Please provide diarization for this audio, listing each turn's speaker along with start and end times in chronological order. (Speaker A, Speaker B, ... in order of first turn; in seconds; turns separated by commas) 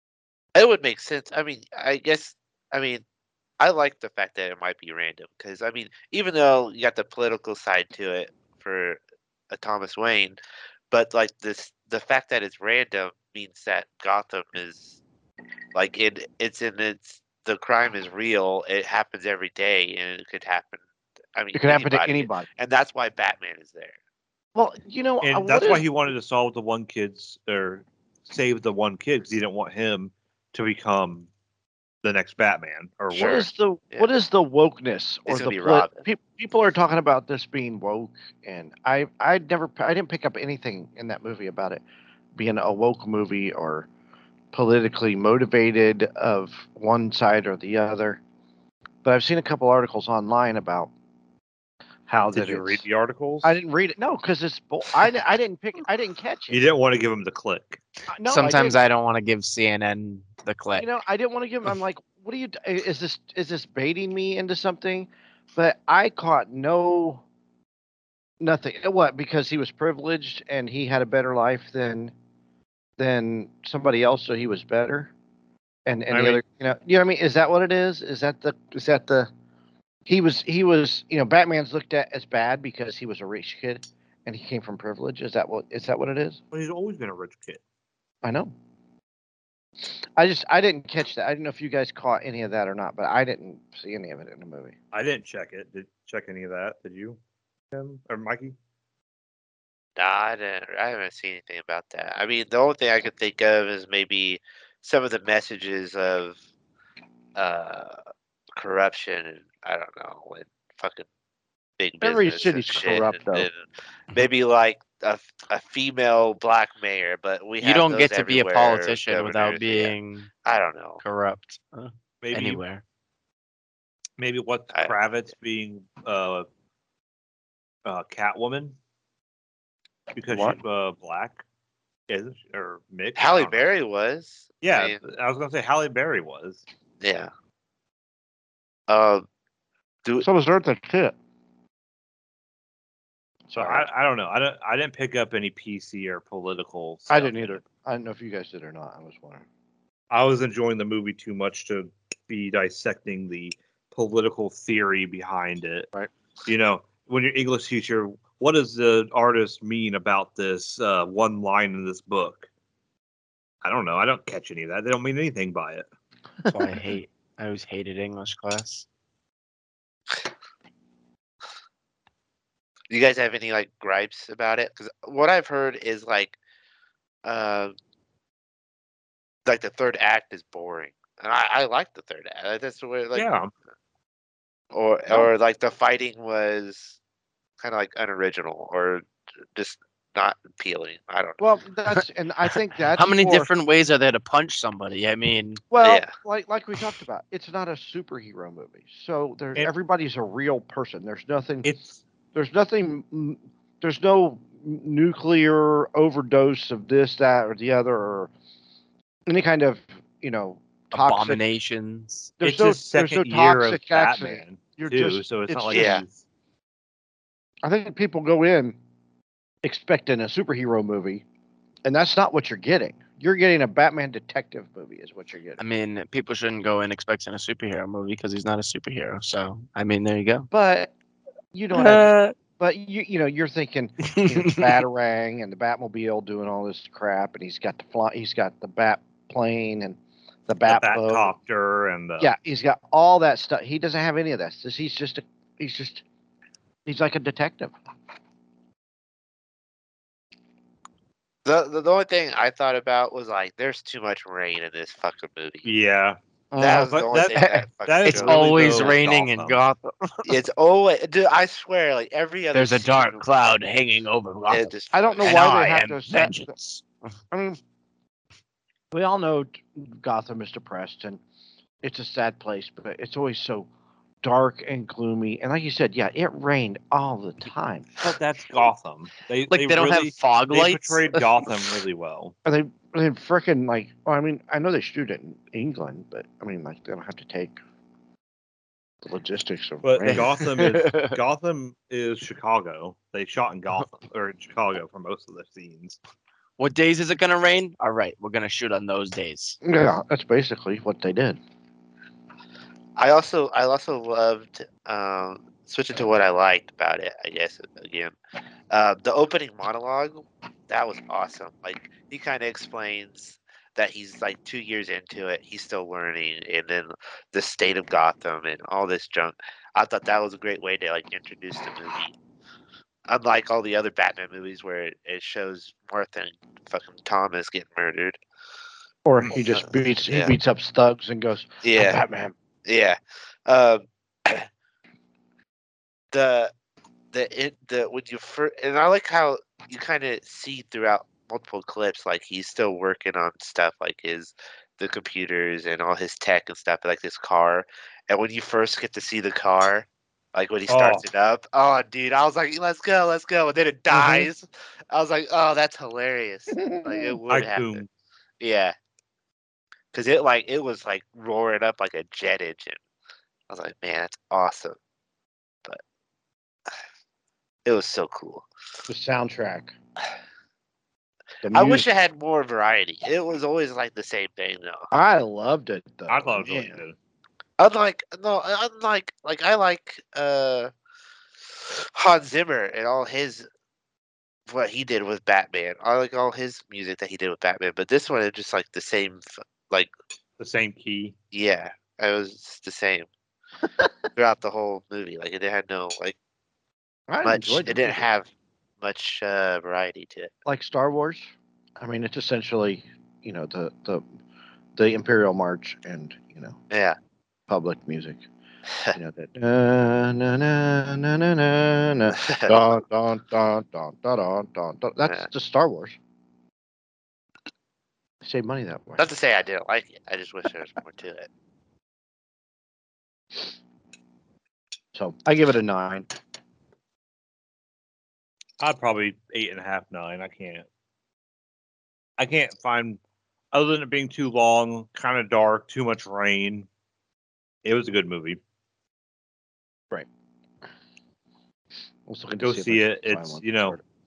Speaker A: 0.6-3.0, Speaker A: 3.6-9.0, Speaker A: 9.5-10.4, Speaker A: 10.9-15.0, Speaker A: 15.7-20.8, Speaker A: 21.4-24.0, Speaker B: 21.5-22.5, Speaker B: 24.6-25.9, Speaker C: 25.2-31.3, Speaker C: 32.0-33.5, Speaker A: 33.1-34.1, Speaker B: 33.1-41.8, Speaker A: 35.3-36.0, Speaker B: 42.4-43.9, Speaker B: 44.5-48.2, Speaker B: 49.0-50.9, Speaker B: 52.1-52.8, Speaker C: 52.3-53.6, Speaker B: 53.4-56.7, Speaker C: 56.5-57.8, Speaker B: 58.1-58.8, Speaker D: 58.3-60.9, Speaker B: 60.8-67.2, Speaker B: 68.4-72.1, Speaker B: 73.0-75.1, Speaker B: 75.9-79.3, Speaker C: 76.1-76.4, Speaker B: 80.1-86.4, Speaker C: 86.5-87.6, Speaker B: 88.2-88.5, Speaker B: 89.8-94.8, Speaker C: 94.9-97.2, Speaker C: 97.7-98.5, Speaker A: 100.0-106.4, Speaker A: 107.4-108.0, Speaker A: 108.6-111.1, Speaker A: 111.8-119.9, Speaker B: 112.0-113.5, Speaker D: 117.6-120.3, Speaker A: 120.5-121.0, Speaker D: 121.0-122.8, Speaker C: 122.2-122.6, Speaker C: 124.2-126.5, Speaker C: 127.8-128.8, Speaker C: 130.1-131.4, Speaker B: 130.3-130.6, Speaker C: 132.1-133.7, Speaker A: 133.2-135.0, Speaker C: 134.6-136.6, Speaker A: 137.0-137.3, Speaker A: 138.9-139.2, Speaker B: 140.2-141.2, Speaker B: 143.5-143.9, Speaker C: 143.6-147.5, Speaker B: 147.1-149.5, Speaker C: 150.1-155.9, Speaker C: 156.5-162.5, Speaker C: 163.6-165.9, Speaker D: 166.5-168.9, Speaker A: 172.9-176.4, Speaker A: 177.2-177.7, Speaker A: 179.5-183.3, Speaker C: 183.2-183.5, Speaker A: 184.7-187.0, Speaker A: 187.6-191.4, Speaker B: 191.4-193.5, Speaker D: 192.9-195.6, Speaker B: 195.7-201.7, Speaker A: 195.8-196.1, Speaker C: 201.6-202.0, Speaker B: 202.3-208.3, Speaker B: 209.3-211.4, Speaker D: 210.9-212.3, Speaker B: 212.4-216.0, Speaker C: 212.4-216.2, Speaker A: 215.7-216.0, Speaker B: 217.6-218.8, Speaker B: 219.6-221.2, Speaker B: 221.8-225.6, Speaker D: 225.6-230.5, Speaker B: 230.5-230.9, Speaker B: 231.5-241.3, Speaker D: 231.7-232.3, Speaker D: 234.0-234.6, Speaker C: 240.7-242.3, Speaker B: 242.2-246.0, Speaker B: 246.9-247.7, Speaker A: 251.4-255.7, Speaker C: 255.6-259.6, Speaker B: 256.5-256.9, Speaker D: 256.5-260.4, Speaker A: 256.6-259.1, Speaker A: 260.2-263.3, Speaker D: 262.5-266.9, Speaker A: 264.5-265.5, Speaker B: 264.9-266.6, Speaker B: 267.3-267.6, Speaker B: 268.9-271.2, Speaker B: 271.8-273.7, Speaker B: 274.2-278.0, Speaker C: 278.0-282.3, Speaker D: 279.5-281.3, Speaker B: 282.4-287.6, Speaker B: 289.0-290.4, Speaker C: 289.8-296.0, Speaker D: 290.0-291.2, Speaker D: 296.6-299.6, Speaker B: 299.6-301.4, Speaker A: 303.0-308.1, Speaker A: 308.7-322.1, Speaker A: 323.1-328.2, Speaker B: 329.1-332.3, Speaker A: 329.6-330.4, Speaker A: 331.6-332.0, Speaker A: 332.6-334.5, Speaker A: 336.1-336.5, Speaker A: 337.1-357.8, Speaker C: 350.7-351.0, Speaker C: 353.9-354.3, Speaker B: 356.5-357.2, Speaker C: 357.3-357.9, Speaker A: 358.4-358.7, Speaker A: 359.9-362.8, Speaker A: 363.5-364.8, Speaker A: 367.7-368.5, Speaker B: 368.9-369.7, Speaker B: 371.4-371.9, Speaker A: 371.5-374.9, Speaker B: 374.9-376.8, Speaker C: 376.1-376.9, Speaker A: 377.6-380.7, Speaker A: 381.6-383.5, Speaker A: 384.5-389.9, Speaker C: 390.4-391.1, Speaker A: 391.3-393.1, Speaker A: 394.1-396.2, Speaker B: 397.1-398.1, Speaker A: 397.2-398.3, Speaker A: 398.8-400.3, Speaker B: 400.5-404.1, Speaker B: 404.8-406.6, Speaker A: 406.7-407.0, Speaker B: 407.5-408.2, Speaker B: 408.9-416.0, Speaker A: 412.1-412.6, Speaker B: 418.2-419.1, Speaker A: 419.0-421.3, Speaker B: 424.9-426.1, Speaker C: 428.6-430.7, Speaker C: 432.2-433.0, Speaker C: 433.5-436.7, Speaker C: 437.6-438.4, Speaker B: 442.1-443.8, Speaker C: 442.4-443.8